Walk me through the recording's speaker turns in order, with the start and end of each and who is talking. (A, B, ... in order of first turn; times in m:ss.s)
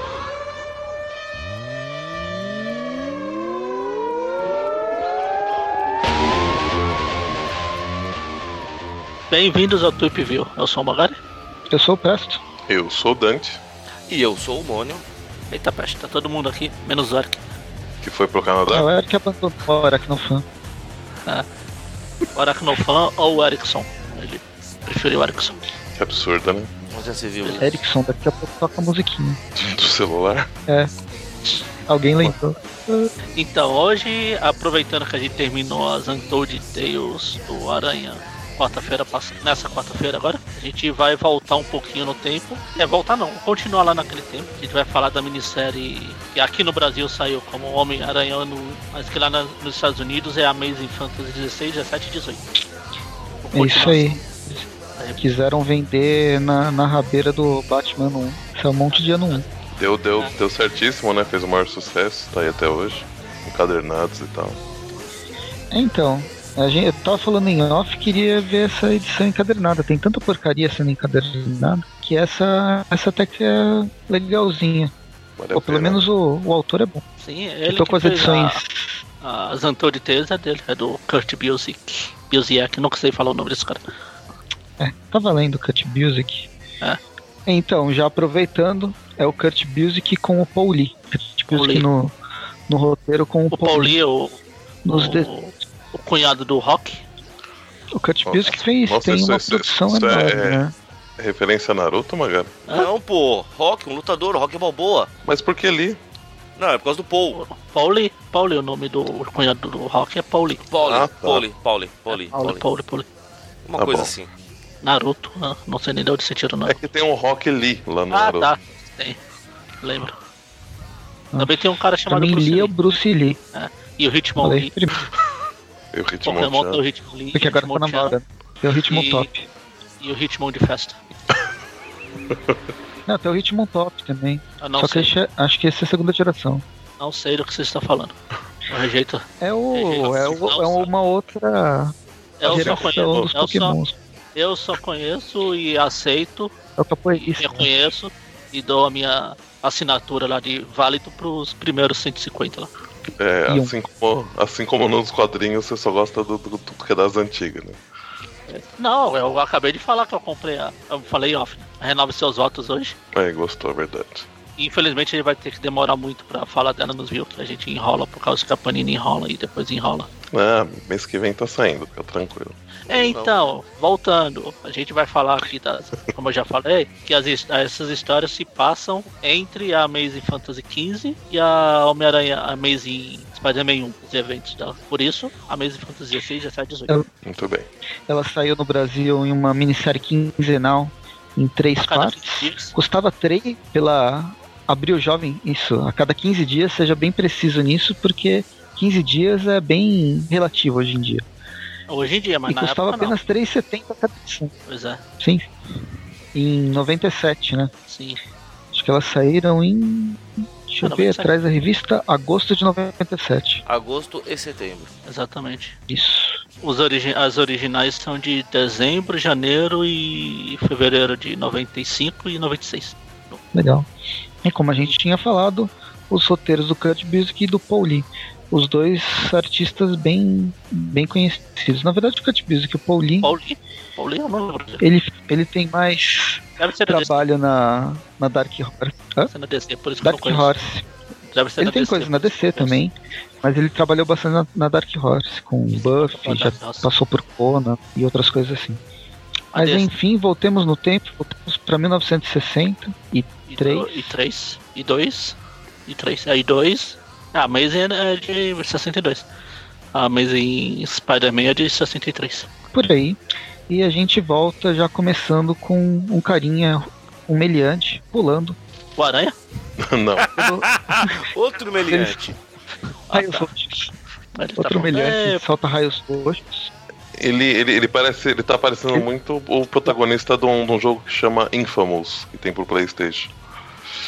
0:09.3-0:11.2 A
0:11.7-0:12.4 B
0:12.7-0:13.6 C
0:14.1-0:15.0 D
0:15.5-0:17.4 A
0:18.0-0:18.9 C
0:18.7-0:20.4 B
0:22.3-0:25.6 A
0:26.0-0:26.7 C
0:26.9-0:27.7 D
0:27.4-0:27.7 A
0:27.6-0:29.4 B
0:29.6-0:30.5 C
0:31.9-0:33.1 B
0:33.4-0:52.4 A
0:53.4-0:54.2 A
0:53.5-0:54.6 B
0:55.0-0:55.2 A
0:55.2-0:59.4 B
0:58.9-0:59.4 A
0:59.7-1:04.6 C
1:05.7-1:14.9 B
1:15.4-1:16.0 C
1:15.5-1:17.0 B
1:17.2-1:18.6 A
1:17.7-1:19.0 B
1:19.2-1:23.8 A
1:24.8-1:26.5 B
1:27.4-1:32.1 B
1:31.5-1:31.8 A
1:32.7-1:34.0 B
1:33.5-1:34.4 A
1:34.8-1:35.3 B
1:34.9-1:37.0 A
1:37.9-1:40.7 B
1:38.2-1:40.6 C
1:41.2-1:42.6 C
1:42.7-1:45.1 D
1:45.2-1:46.0 C
1:46.6-1:47.4 D
1:47.3-1:50.6 A
1:50.6-1:52.6 D
1:50.8-1:51.4 C
1:52.1-1:53.0 A
1:53.6-1:54.3 D
1:53.8-1:54.1 C
1:54.8-1:56.8 A
1:56.6-1:58.5 C
1:58.1-1:59.2 A
1:59.8-2:00.2 A
2:01.3-2:03.4 B
2:01.4-2:02.7 A
2:03.5-2:04.7 A
2:04.4-2:05.0 B
2:05.9-2:06.8 C
2:06.2-2:08.2 A
2:07.3-2:09.5 B
2:08.8-2:09.3 A
2:10.0-2:11.0 A
2:12.3-2:12.6 C
2:13.0-2:16.6 B
2:14.6-2:15.1 A
2:17.0-2:18.1 A
2:18.7-2:20.9 A
2:19.4-2:24.0 B
2:22.4-2:23.7 A
2:22.4-2:23.3 C
2:24.3-2:26.5 A
2:26.8-2:27.8 B
2:27.1-2:32.7 A
2:33.2-2:37.8 C
2:33.5-2:33.7 B
2:38.5-2:43.0 A
2:43.1-2:44.3 C
2:44.6-2:50.1 A
2:50.3-2:52.6 C
2:52.9-3:06.9 A
2:52.9-2:53.4 D
3:07.2-3:07.7 C
3:08.1-3:21.2 B
3:11.8-3:12.7 A
3:21.9-3:23.2 A
3:22.5-3:24.5 B
3:24.7-3:25.0 A
3:25.2-3:25.4 B
3:26.3-3:27.7 B
3:27.9-3:28.2 A
3:28.7-3:33.6 B
3:30.8-3:31.3 A
3:33.6-3:34.9 D
3:35.0-3:35.8 A
3:35.9-3:36.4 B
3:36.6-3:43.4 A
3:43.5-3:43.8 B
3:44.4-3:53.3 B
3:53.2-3:54.8 A
3:54.8-3:59.3 B
3:56.6-3:57.2 A
3:59.2-4:00.5 A
4:00.0-4:00.9 B
4:01.3-4:02.8 A
4:01.6-4:08.8 B
4:06.0-4:06.9 A
4:09.5-4:14.1 B
4:09.5-4:09.9 A
4:13.5-4:15.4 A
4:15.9-4:19.3 A
4:19.9-4:22.5 A
4:22.7-4:28.6 B
4:29.0-4:29.3 A
4:29.8-4:30.3 C
4:30.3-4:31.1 B
4:30.7-4:32.3 D
4:31.8-4:32.3 B
4:33.1-4:33.5 A
4:33.1-4:33.9 B
4:34.3-4:35.4 A
4:34.6-4:36.7 B
4:37.1-4:43.3 C